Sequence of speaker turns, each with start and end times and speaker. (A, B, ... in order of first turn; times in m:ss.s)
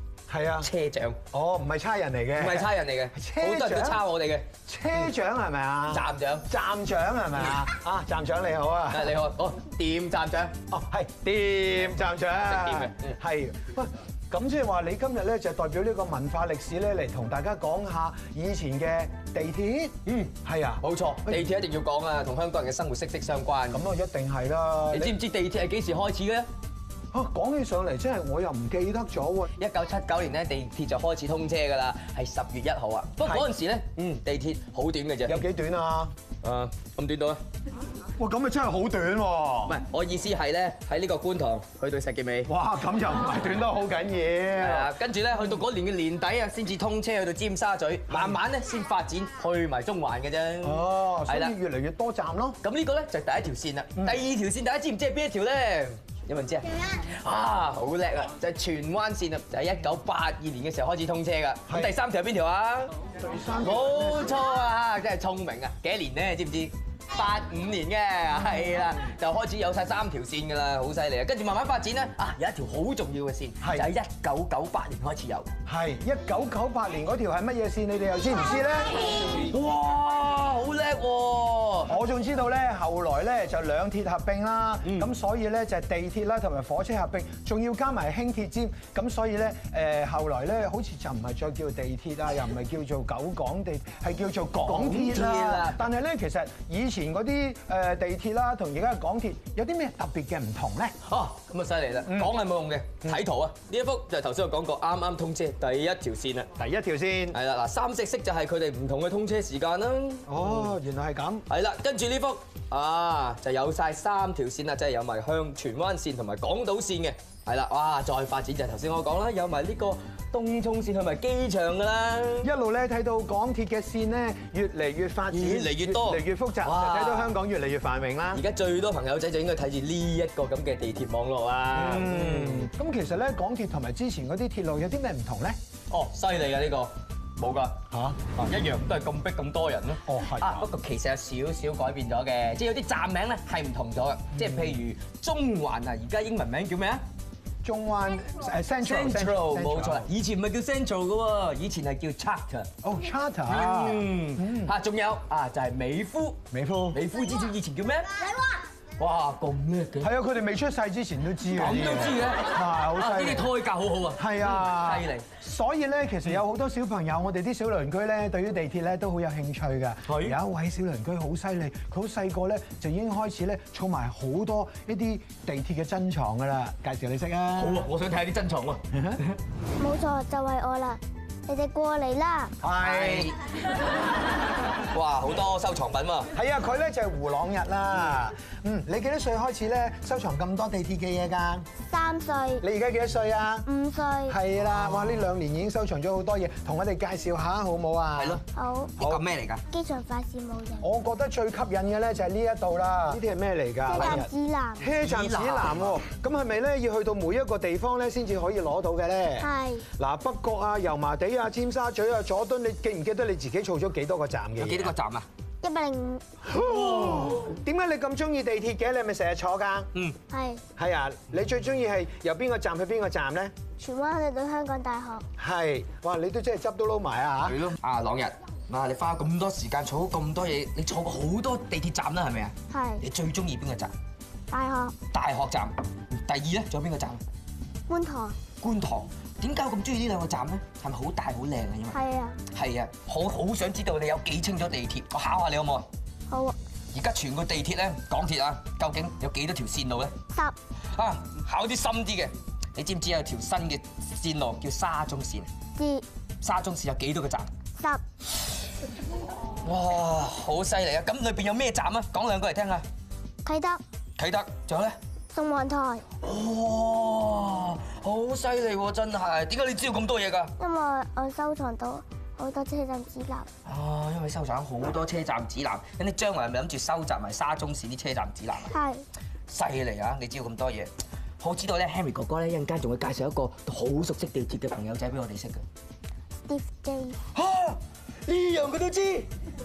0:00.3-0:00.7 A
0:00.6-0:01.2 B
0:01.3-0:04.0 A
0:02.4-0:04.4 B
0:04.6-0:09.1 A
0:05.9-0:06.4 B
0:08.9-0:10.5 B
0:10.7-0:21.4 A
0:12.4-0:13.1 B
0:20.0-0:23.9 B
0:23.7-0:25.1 A
0:24.9-0:26.5 B
0:27.1-0:29.5 A
0:29.6-0:35.4 B
0:33.2-0:33.5 A
0:35.2-0:36.1 A
0:36.4-0:37.4 B
0:38.2-0:39.8 A
0:39.7-0:42.5 B
0:42.5-0:44.9 A
0:44.6-0:51.5 B
0:48.1-0:48.4 A
0:50.6-0:52.6 A
0:52.6-1:02.9 B
1:01.7-1:01.9 A
1:03.2-1:04.4 A
1:03.6-1:15.5 B
1:13.6-1:13.9 A
1:15.6-1:19.1 A
1:19.3-1:22.0 B
1:21.9-1:40.9 A
1:34.6-1:35.8 B
1:41.0-1:46.5 B
1:42.0-1:42.3 A
1:46.6-1:47.4 A
1:47.3-1:50.7 B
1:50.3-1:51.4 A
1:51.5-2:02.5 B
2:02.4-2:08.4 A
2:05.3-2:07.4 B
2:08.3-2:12.7 B
2:11.7-2:15.6 A
2:15.9-2:17.8 B
2:17.9-2:18.4 A
2:18.3-2:27.0 B
2:20.0-2:20.7 A
2:24.4-2:24.7 A
2:27.6-2:30.1 A
2:28.8-2:32.7 B
2:32.8-2:34.7 A
2:33.5-2:36.4 B
2:36.5-2:37.0 A
2:36.9-2:38.1 B
2:39.0-2:40.1 B
2:40.0-2:43.5 A
2:41.5-2:45.3 B
2:44.2-2:57.8 A
2:50.1-2:50.4 B
2:57.6-2:59.3 B
2:58.9-2:59.2 A
2:59.8-3:02.5 C
3:02.6-3:03.3 A
3:02.8-3:03.4 B
3:04.9-3:06.3 B
3:06.3-3:11.6 A
3:11.9-3:12.6 C
3:12.6-3:13.7 A
3:13.7-3:14.4 C
3:14.3-3:18.4 A
3:18.2-3:18.4 B
3:18.5-3:18.9 C
3:19.0-3:19.6 B
3:19.7-3:20.8 C
3:20.8-3:34.9 A
3:23.8-3:24.9 C
3:24.9-3:25.9 B
3:29.4-3:29.8 C
3:34.6-3:35.2 B
3:35.6-3:36.2 C
3:36.4-3:39.9 A
3:36.6-3:37.3 B
3:40.3-3:40.6 C
3:40.8-3:43.5 A
3:43.8-3:45.2 C
3:45.4-3:47.6 A
3:47.4-3:53.9 B
3:52.7-3:53.0 C
3:54.5-3:54.9 C
3:55.1-3:57.2 B
3:57.9-3:58.4 C
3:58.6-4:02.0 B
4:01.9-4:02.4 C
4:02.5-4:05.9 B
4:06.3-4:06.5 C
4:06.9-4:10.1 B
4:10.9-4:15.5 B
4:15.8-4:16.0 C
4:16.4-4:17.5 B
4:19.6-4:22.8 B
4:23.4-4:23.8 C
4:24.2-4:25.0 B
4:25.3-4:26.0 C
4:26.2-4:30.5 B
4:30.6-4:33.5 C
4:33.6-4:38.7 B
4:38.7-4:39.0 C
4:39.5-4:45.6 B
4:46.5-4:47.2 C
4:47.3-4:49.3 B